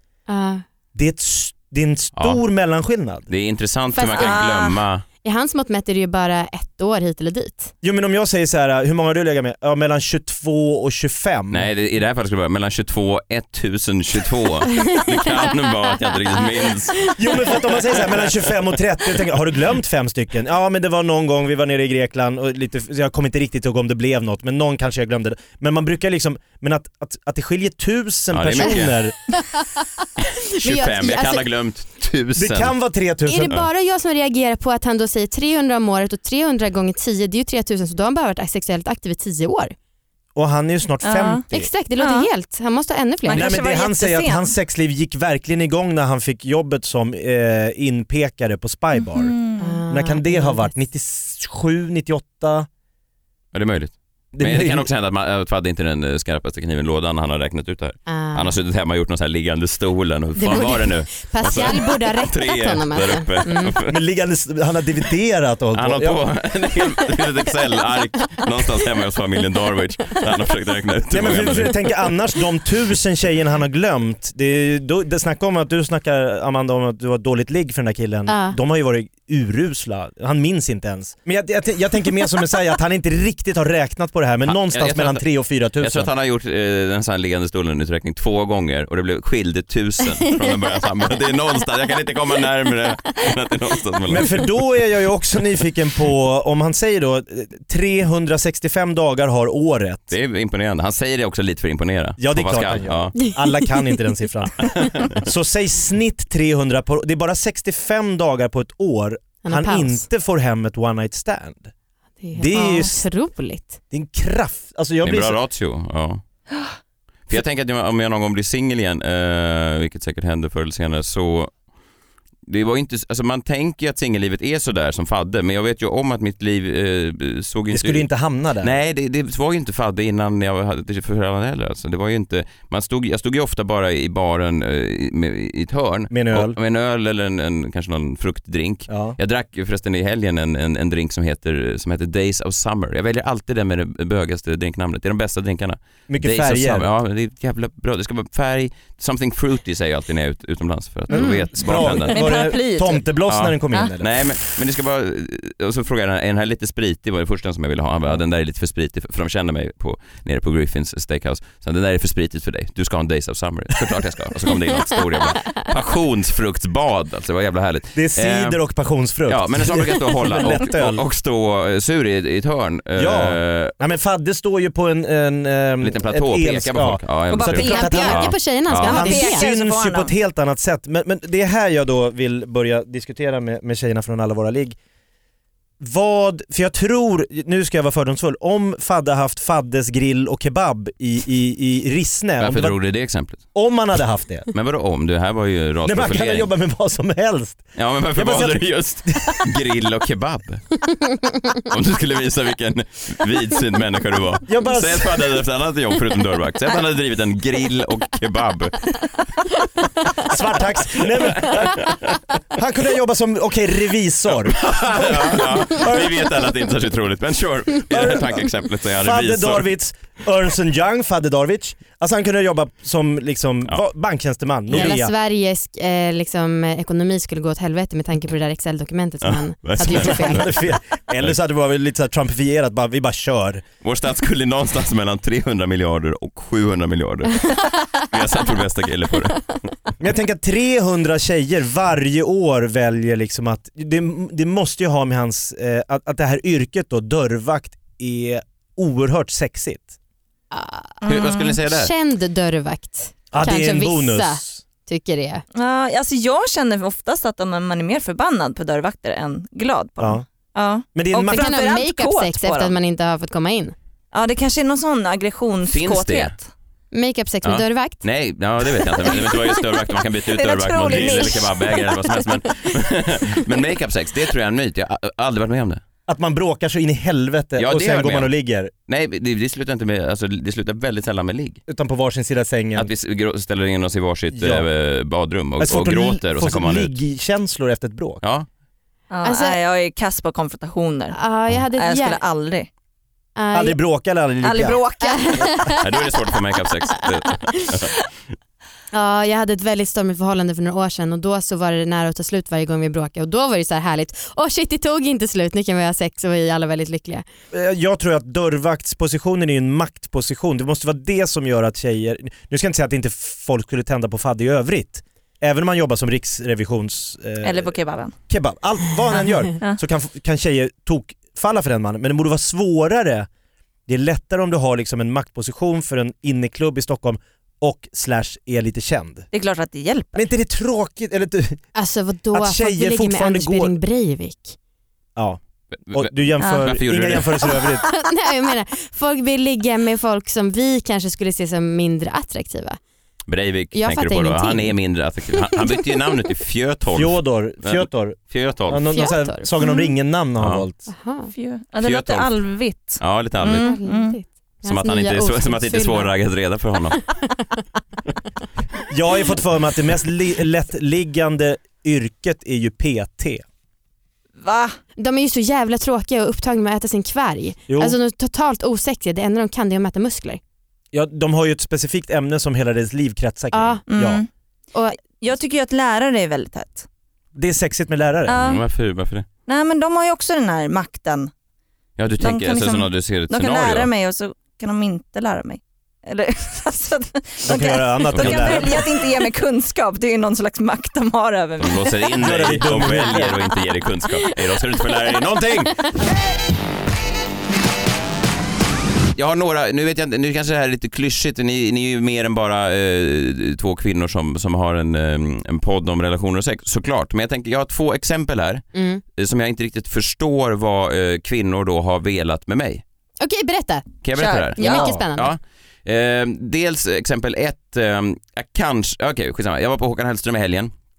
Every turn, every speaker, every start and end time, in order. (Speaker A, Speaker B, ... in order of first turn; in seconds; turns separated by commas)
Speaker A: 0.3-0.6, Speaker B: 0.9-3.3, Speaker C: 2.1-2.4, Speaker C: 3.3-5.0, Speaker A: 3.9-4.4, Speaker D: 4.1-4.8, Speaker A: 5.2-7.7, Speaker B: 7.8-11.7, Speaker C: 11.5-18.4, Speaker A: 14.8-15.5, Speaker B: 17.2-29.1, Speaker C: 28.3-29.0, Speaker A: 29.3-29.8, Speaker A: 30.6-31.4, Speaker C: 30.6-32.7, Speaker B: 32.4-33.5, Speaker A: 33.2-39.7, Speaker B: 40.3-41.7, Speaker D: 41.0-41.4, Speaker A: 41.5-43.5, Speaker D: 42.0-42.3, Speaker D: 43.2-44.5, Speaker B: 43.3-49.4, Speaker D: 49.0-49.8, Speaker A: 49.6-50.7, Speaker B: 49.9-52.7, Speaker C: 53.5-64.0, Speaker B: 54.3-54.9, Speaker A: 58.1-58.6, Speaker A: 60.4-63.7, Speaker B: 63.9-66.2, Speaker C: 65.7-71.8, Speaker B: 71.1-86.1, Speaker A: 78.3-78.6, Speaker C: 84.5-85.2, Speaker C: 85.8-94.4, Speaker B: 94.1-100.1, Speaker C: 100.1-103.2, Speaker B: 102.2-111.7, Speaker C: 104.6-105.3, Speaker A: 109.4-110.0, Speaker A: 112.2-113.8, Speaker B: 112.3-113.0, Speaker B: 113.9-115.4, Speaker C: 115.0-116.2, Speaker C: 117.3-121.5, Speaker C: 122.5-128.1, Speaker B: 127.7-128.8, Speaker C: 128.6-152.4, Speaker B: 136.1-136.6, Speaker B: 138.9-139.2, Speaker B: 146.1-146.9, Speaker B: 151.1-154.2, Speaker A: 151.1-151.4, Speaker D: 152.1-153.1, Speaker C: 153.3-168.6, Speaker B: 167.9-171.0, Speaker C: 169.3-173.7, Speaker B: 172.9-184.8, Speaker C: 175.8-179.2, Speaker D: 177.3-180.1, Speaker A: 177.6-179.5, Speaker B: 185.8-192.8, Speaker C: 192.4-193.4, Speaker B: 193.5-194.5, Speaker C: 194.5-196.5, Speaker B: 195.8-199.4, Speaker C: 197.7-200.6, Speaker C: 201.7-208.9, Speaker B: 204.5-205.4, Speaker B: 210.2-211.9, Speaker C: 211.0-212.2, Speaker B: 212.5-216.3, Speaker C: 214.4-219.7, Speaker B: 217.9-225.1, Speaker A: 224.7-230.4, Speaker C: 229.2-230.6, Speaker B: 229.8-233.6, Speaker C: 233.8-239.7, Speaker B: 240.0-249.9, Speaker A: 250.5-255.4, Speaker D: 251.0-251.5, Speaker C: 251.1-251.9, Speaker B: 253.3-254.6, Speaker D: 255.5-262.7, Speaker B: 260.0-260.2, Speaker B: 260.9-261.5, Speaker A: 261.3-263.7, Speaker D: 264.1-266.5, Speaker C: 265.6-266.4, Speaker A: 266.9-268.0, Speaker C: 267.4-275.8, Speaker D: 270.3-272.1, Speaker B: 276.1-278.7, Speaker C: 277.6-278.3, Speaker C: 278.9-281.6, Speaker B: 281.7-282.9, Speaker C: 282.8-286.9, Speaker B: 284.3-284.6, Speaker B: 285.6-288.2, Speaker C: 288.2-288.5, Speaker D: 289.1-291.2, Speaker A: 289.2-289.6, Speaker A: 291.1-292.2, Speaker D: 291.8-292.7, Speaker A: 293.4-293.8, Speaker B: 293.5-294.8, Speaker D: 294.4-295.7, Speaker A: 295.0-295.8, Speaker C: 295.8-297.9, Speaker A: 298.9-307.2, Speaker B: 307.5-317.8, Speaker D: 317.4-318.1, Speaker B: 318.3-323.3, Speaker B: 323.9-329.3, Speaker D: 329.3-330.3, Speaker B: 330.1-331.6, Speaker A: 331.7-334.6, Speaker B: 332.3-333.7, Speaker C: 335.8-337.6, Speaker B: 335.9-337.8, Speaker D: 336.4-336.6, Speaker A: 337.9-342.8, Speaker C: 343.3-348.8, Speaker A: 343.7-344.8, Speaker A: 345.3-345.7, Speaker B: 346.9-350.9, Speaker A: 348.9-349.9, Speaker C: 350.4-350.6, Speaker A: 350.9-351.3, Speaker D: 351.3-354.1, Speaker C: 351.8-352.3, Speaker C: 353.0-353.7, Speaker A: 353.6-356.1, Speaker C: 354.6-357.0, Speaker A: 357.0-357.6, Speaker B: 358.9-363.4, Speaker D: 364.4-364.8, Speaker A: 365.0-370.4, Speaker B: 367.7-368.0, Speaker B: 370.9-374.2, Speaker A: 373.5-373.8, Speaker D: 373.9-374.3, Speaker A: 374.7-375.0, Speaker D: 375.0-376.9, Speaker B: 377.3-378.5, Speaker D: 378.3-378.6, Speaker C: 378.3-379.2, Speaker D: 379.5-381.3, Speaker C: 382.0-383.9, Speaker D: 382.2-392.6, Speaker B: 387.4-388.8, Speaker C: 388.1-388.8, Speaker C: 391.6-395.8, Speaker B: 392.2-393.4, Speaker C: 399.1-408.6, Speaker A: 408.7-409.0, Speaker C: 409.1-412.8, Speaker A: 413.2-413.8, Speaker C: 414.0-420.7, Speaker D: 414.2-414.9, Speaker A: 414.6-415.3, Speaker B: 414.6-415.0